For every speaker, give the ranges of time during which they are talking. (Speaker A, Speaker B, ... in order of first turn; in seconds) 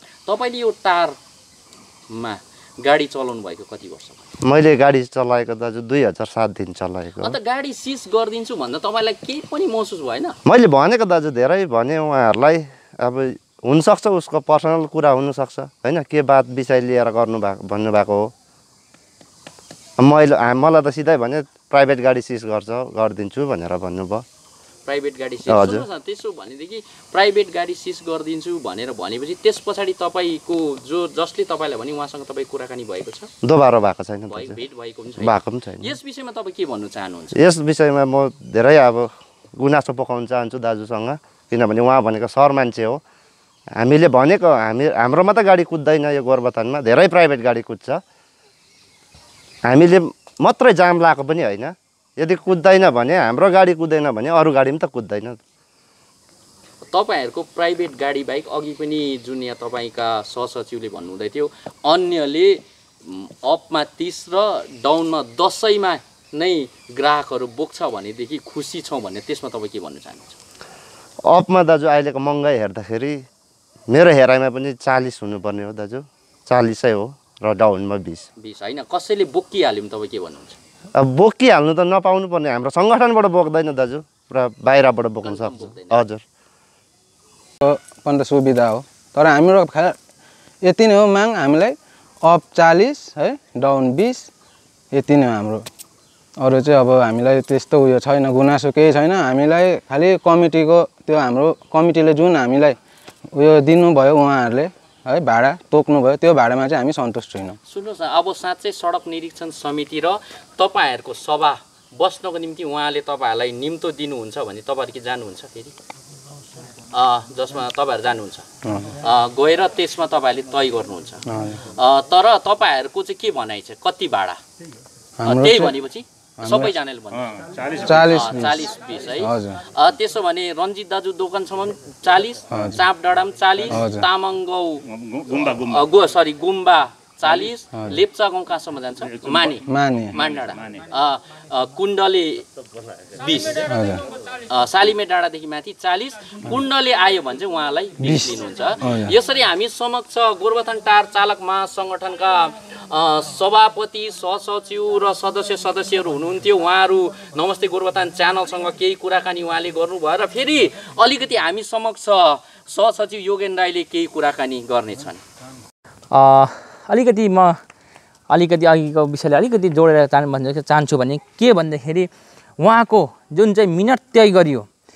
Speaker A: 0.3-1.1, 2.1-4.2, 7.2-10.4, 24.9-33.3, 34.3-37.4, 56.9-70.4, 78.4-80.6, 85.2-86.0, 107.7-115.7, 116.9-118.5, 119.0-124.4, 125.2-142.5, 143.1-143.7, 144.4-165.2
Speaker B: 4.4-7.4, 10.5-18.3, 20.0-24.2, 25.5-25.8, 33.4-34.6, 35.2-35.9, 37.3-43.0, 43.8-48.0, 49.6-55.4, 71.3-73.2, 73.9-78.3, 81.0-86.2
Speaker C: 87.6-90.0, 90.6-94.3, 94.9-95.6, 96.4-102.8, 103.3-107.6, 118.6-118.9, 121.3-121.6, 125.2-125.8, 126.4-126.7, 127.8-128.7, 129.2-129.6, 132.5-132.8, 133.7-134.1, 139.7-140.1, 143.7-144.0, 148.0-149.1
Speaker D: 166.1-167.6, 168.3-172.1, 172.6-174.7